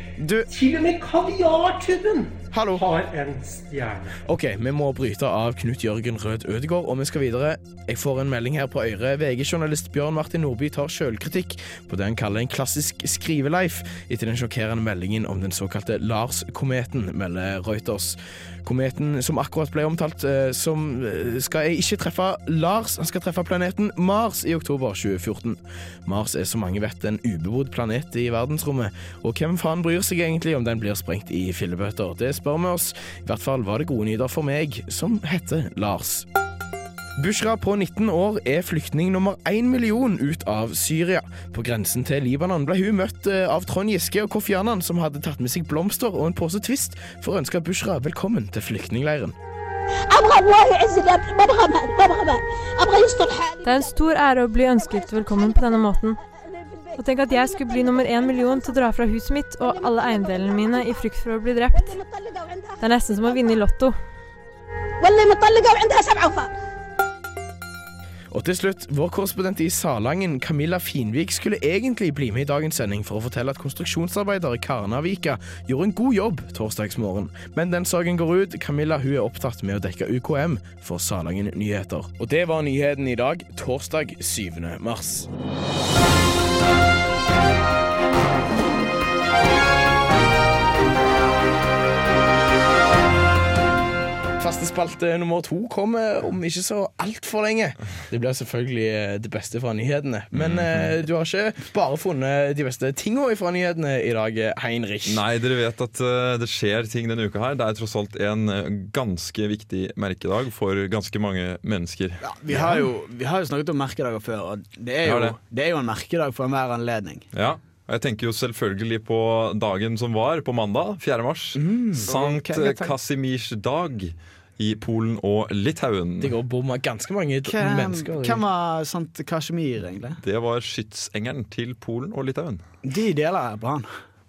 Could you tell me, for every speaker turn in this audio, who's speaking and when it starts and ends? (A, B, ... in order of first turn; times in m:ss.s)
0:00.2-0:00.5 A
0:00.5-0:04.2 B
0:02.5-0:02.8 A
0:04.2-0:36.3 A
0:37.2-0:49.4 A
0:50.1-0:54.0 C
0:53.6-0:56.2 D
0:54.8-0:55.8 C
0:56.5-0:58.8 C
0:57.0-1:02.0 D
0:59.6-1:01.0 C
1:01.7-1:03.6 C
1:02.8-1:04.0 D
1:05.0-1:06.5 C
1:08.3-1:25.3 A
1:34.4-1:45.2 A
1:40.3-1:41.0 E
1:45.1-1:52.8 E
1:52.2-1:57.3 F
1:55.0-1:55.4 E
1:57.3-2:06.4 E
2:01.6-2:02.1 A
2:02.0-2:02.9 F
2:06.2-2:08.4 A
2:07.4-2:10.2 F
2:10.2-2:12.6 E
2:12.8-2:13.9 F